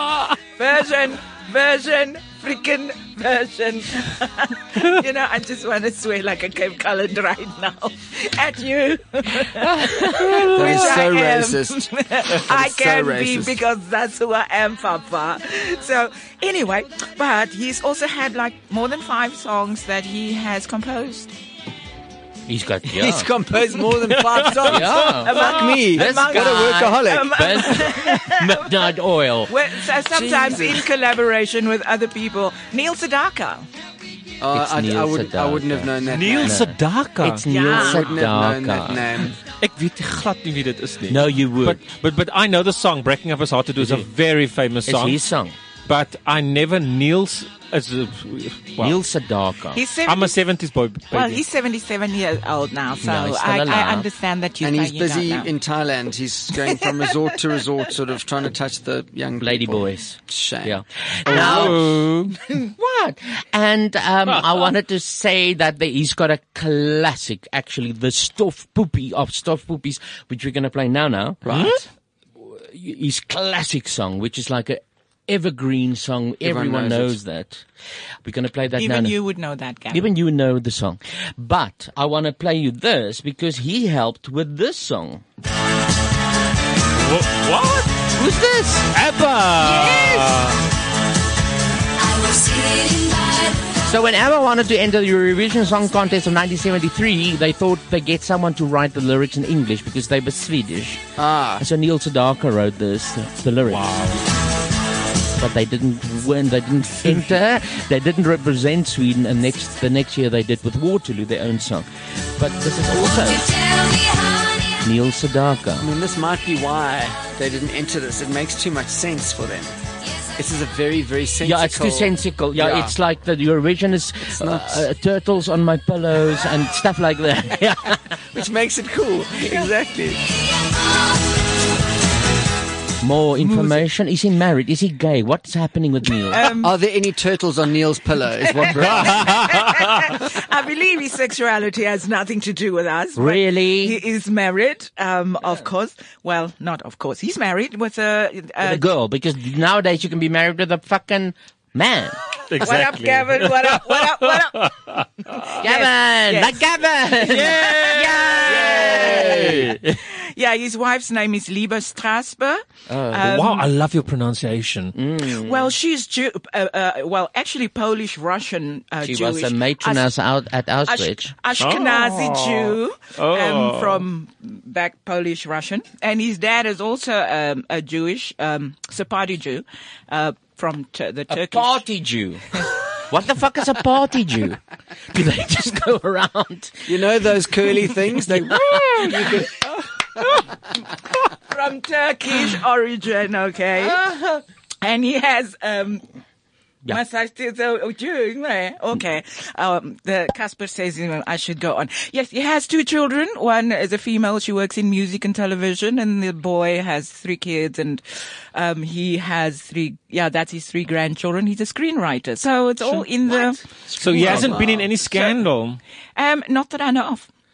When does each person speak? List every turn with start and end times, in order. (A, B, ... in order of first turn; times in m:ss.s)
0:00.6-0:21.3 A
0:09.7-0:11.0 B
0:10.5-0:13.6 C
0:22.5-0:23.3 B
0:22.9-0:27.3 C
0:24.4-0:28.7 A
0:24.6-0:29.6 B
0:29.5-0:33.6 A
0:30.1-0:30.8 C
0:34.4-0:36.6 C
0:34.5-0:39.3 B
0:36.0-0:37.4 D
0:37.5-0:38.1 A
0:37.6-0:39.3 C
0:39.6-0:45.2 D
0:41.1-0:41.8 B
0:43.8-0:44.1 B
0:44.8-0:45.6 B
0:45.8-0:49.0 D
0:48.8-0:49.8 B
0:49.7-0:50.4 A
0:50.0-0:51.4 D
0:51.1-0:55.5 A
0:53.0-0:54.1 B
0:54.6-1:02.0 C
0:59.4-1:11.7 B
1:01.4-1:02.3 D
1:11.4-1:11.8 C
1:12.4-1:17.6 B
1:16.4-1:17.2 C
1:18.2-1:19.2 B
1:18.8-1:20.1 A
1:19.9-1:25.2 B
1:27.0-1:27.9 D
1:28.1-1:28.9 B
1:28.9-1:30.6 D
1:33.8-1:41.0 B
1:41.2-1:41.6 C
1:41.6-1:44.1 B
1:43.7-1:44.2 D
1:45.4-1:53.7 B
1:54.8-1:55.9 B
1:55.8-1:59.7 C
2:00.4-2:02.9 C
2:01.4-2:08.0 B
2:04.3-2:04.8 C
2:08.3-2:10.2 C
2:13.0-2:16.5 B
2:13.4-2:13.8 A
2:16.3-2:16.7 A
2:16.6-2:19.6 C
2:18.6-2:28.8 A
2:23.2-2:24.0 B
2:28.6-2:32.2 B
2:32.5-2:34.2 D
2:32.6-2:39.4 A
2:35.5-2:39.8 B
2:37.5-2:37.9 D
2:38.5-2:39.7 C
2:39.4-2:40.0 D
2:40.0-2:43.6 A
2:42.9-2:43.4 B
2:43.2-2:44.9 D
2:44.9-2:45.7 B
2:45.2-2:50.1 A
2:49.0-2:51.3 B
2:50.9-3:01.8 A
2:51.6-2:54.0 D
3:01.3-3:09.5 B
3:06.9-3:09.3 C
3:11.5-3:14.0 A
3:13.8-3:14.4 B
3:14.8-3:16.0 A
3:16.9-3:33.6 A
3:32.9-3:34.6 B
3:33.9-3:35.8 D
3:34.1-3:34.9 C
3:34.1-3:35.4 A
3:36.2-3:37.3 A